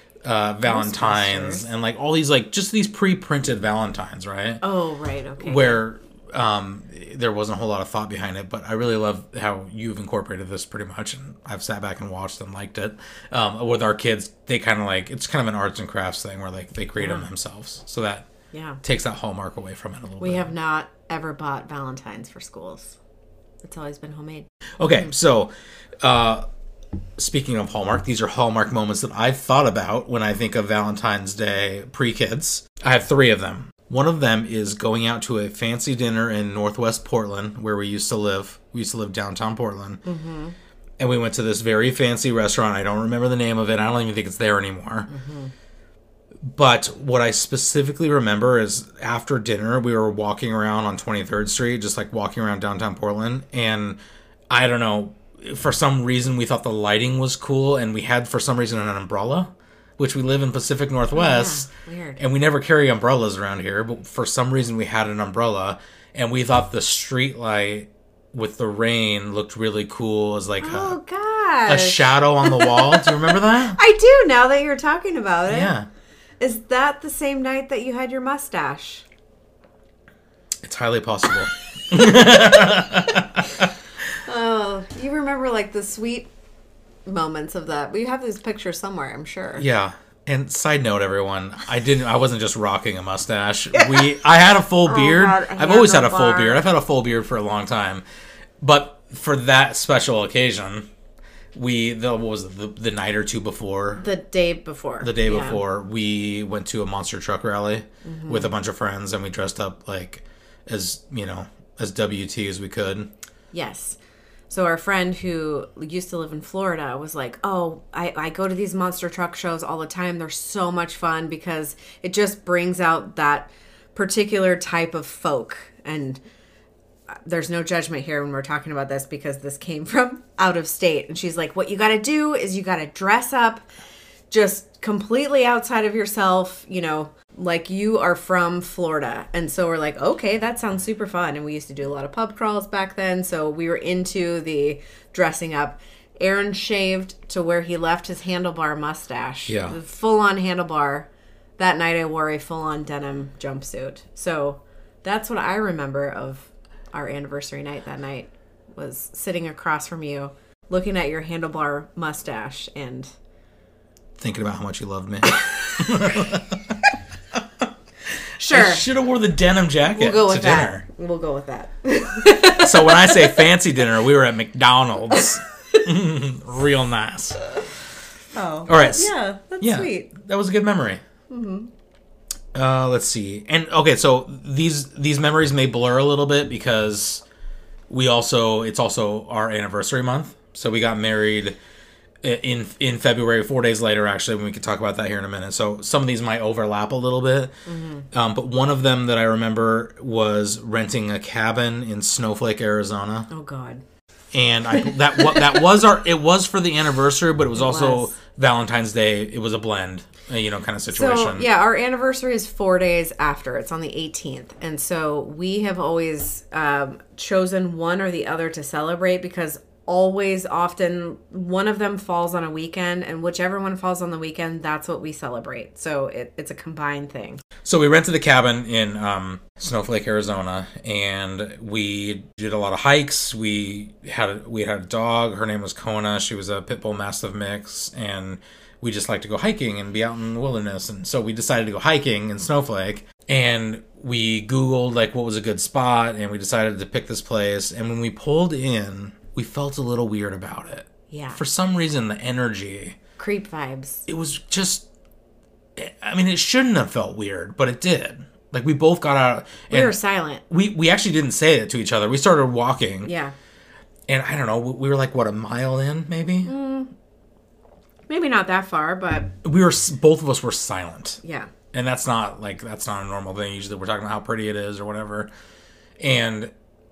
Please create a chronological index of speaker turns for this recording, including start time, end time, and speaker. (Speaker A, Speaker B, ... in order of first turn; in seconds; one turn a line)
Speaker A: 0.2-4.6
Speaker B: 0.7-1.6
Speaker B: 4.6-5.8
Speaker A: 5.4-18.3
Speaker B: 17.0-17.2
Speaker B: 18.5-18.8
Speaker A: 18.8-20.5
Speaker B: 20.2-23.0
Speaker B: 23.6-24.4
Speaker A: 24.8-26.5
Speaker A: 27.2-40.0
Speaker B: 40.0-40.5
Speaker A: 41.0-45.1
Speaker B: 45.1-45.5
Speaker A: 46.4-54.0
Speaker A: 54.5-61.7
Speaker B: 61.1-62.2
Speaker A: 62.2-71.0
Speaker B: 70.6-75.7
Speaker A: 71.7-73.8
Speaker A: 75.5-75.9
Speaker B: 76.4-79.0
Speaker A: 80.6-83.7
Speaker B: 82.0-82.8
Speaker B: 84.2-86.3
Speaker B: 87.0-89.6
Speaker A: 89.5-98.0
Speaker B: 93.8-94.1
Speaker B: 94.8-96.6
Speaker A: 98.6-100.9
Speaker A: 101.5-104.0
Speaker B: 104.0-105.6
Speaker A: 105.0-113.1
Speaker B: 108.0-108.5
Speaker B: 113.5-114.0
Speaker B: 114.5-126.2
Speaker B: 127.2-133.7
Speaker B: 134.3-163.1
Speaker A: 149.5-149.8
Speaker A: 164.2-166.8
Speaker B: 168.4-168.8
Speaker A: 168.4-170.8
Speaker B: 169.9-173.4
Speaker A: 172.4-177.4
Speaker B: 178.3-180.1
Speaker A: 178.7-181.0
Speaker B: 181.3-181.7
Speaker A: 182.5-187.2
Speaker A: 187.9-191.6
Speaker A: 192.2-197.5
Speaker B: 197.7-198.1
Speaker A: 198.1-203.3
Speaker B: 203.3-203.8
Speaker A: 204.3-211.5
Speaker B: 204.8-205.6
Speaker B: 207.5-208.1
Speaker B: 210.9-227.4
Speaker A: 227.6-253.0
Speaker B: 251.1-251.4
Speaker B: 253.2-254.0
Speaker A: 254.1-254.8
Speaker A: 255.8-260.0
Speaker B: 259.7-260.4
Speaker A: 260.5-263.1
Speaker B: 263.0-263.3
Speaker A: 264.1-266.5
Speaker B: 266.4-266.9
Speaker B: 268.1-269.3
Speaker A: 269.4-271.2
Speaker B: 271.2-271.5
Speaker A: 271.7-275.3
Speaker A: 276.0-276.5